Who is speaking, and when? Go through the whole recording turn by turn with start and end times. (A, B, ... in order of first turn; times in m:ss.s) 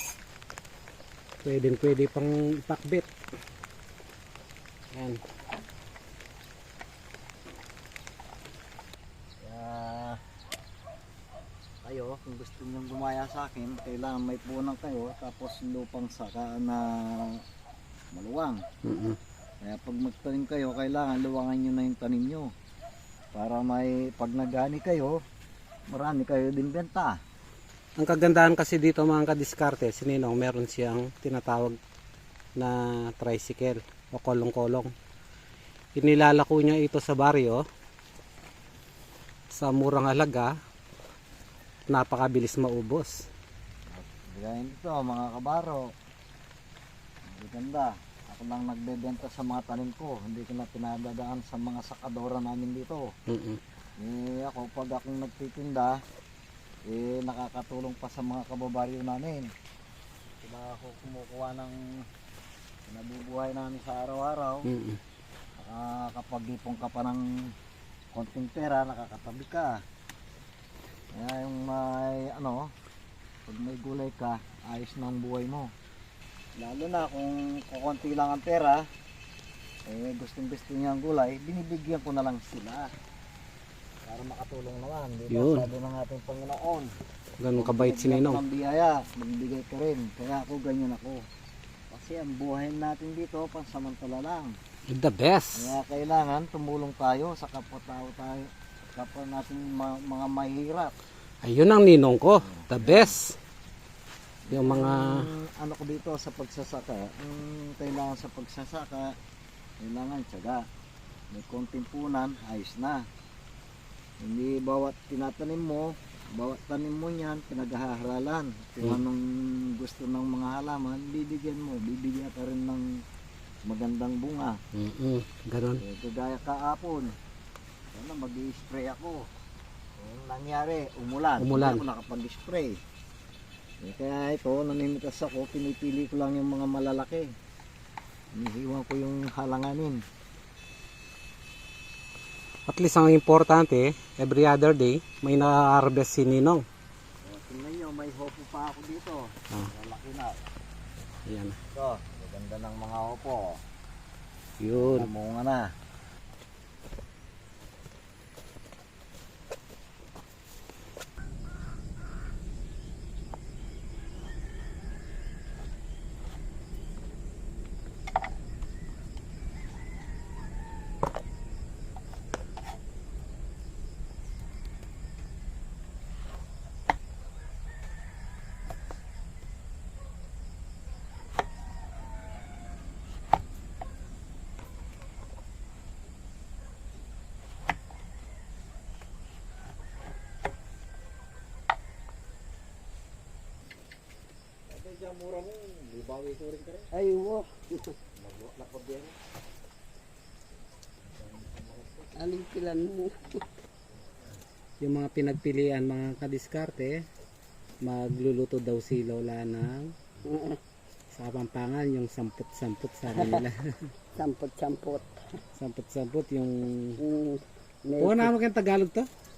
0:01.4-0:03.1 A
0:04.9-0:05.2 A
0:09.4-0:10.2 B
0:11.8-0:17.4 B
0:18.1-0:18.6 B
0:18.8-0:19.2 A
0:19.6-0:22.5 B
0:23.3-0:25.2 B
0:25.9-0:27.2 B
0:28.0-0:31.8 A
0:32.6-0:34.9 A
0:36.0-0:37.6 A
0:39.5-0:40.5 A
0:41.9-0:43.3 A
0:43.9-0:45.9 B
0:47.2-0:53.1 B
0:53.3-0:53.6 A
0:54.0-0:56.0 B
0:56.9-0:59.5 B
1:00.4-1:01.9 B
1:02.9-1:04.7 B
1:04.6-1:05.0 A
1:05.6-1:07.2 B
1:08.1-1:09.8 B
1:11.1-1:12.7 B
1:13.5-1:15.7 B
1:16.6-1:18.8 B
1:19.8-1:22.9 B
1:24.0-1:26.9 B
1:25.3-1:25.7 A
1:27.4-1:28.4 A
1:27.5-1:31.2 B
1:31.9-1:34.5 B
1:34.9-1:35.7 A
1:35.5-1:41.0 B
1:41.4-1:43.4 A
1:42.4-1:43.1 B
1:44.4-1:49.2 B
1:44.5-1:45.3 A
1:49.8-1:50.6 B
1:51.3-1:53.0 B
1:54.2-2:03.0 B
2:03.7-2:04.6 B
2:04.7-2:05.8 A
2:05.8-2:07.2 B
2:07.9-2:09.3 B
2:10.0-2:12.8 B
2:11.4-2:11.8 A
2:13.8-2:17.3 B
2:18.3-2:20.0 B
2:22.7-2:26.6 A
2:27.2-2:30.4 B
2:31.3-2:31.6 A
2:31.7-2:33.6 B
2:34.6-2:35.1 A
2:34.7-2:35.7 B
3:14.7-3:16.9 B
3:16.9-3:18.0 C
3:18.2-3:19.2 B
3:21.1-3:22.1 B
3:22.2-3:23.4 C
3:24.8-3:27.0 A
3:27.8-3:29.9 A
3:30.2-3:30.6 C
3:31.1-3:33.9 A
3:33.1-3:33.4 C
3:34.1-3:35.4 C
3:35.6-3:37.0 A
3:37.0-3:38.3 C
3:38.0-3:39.1 A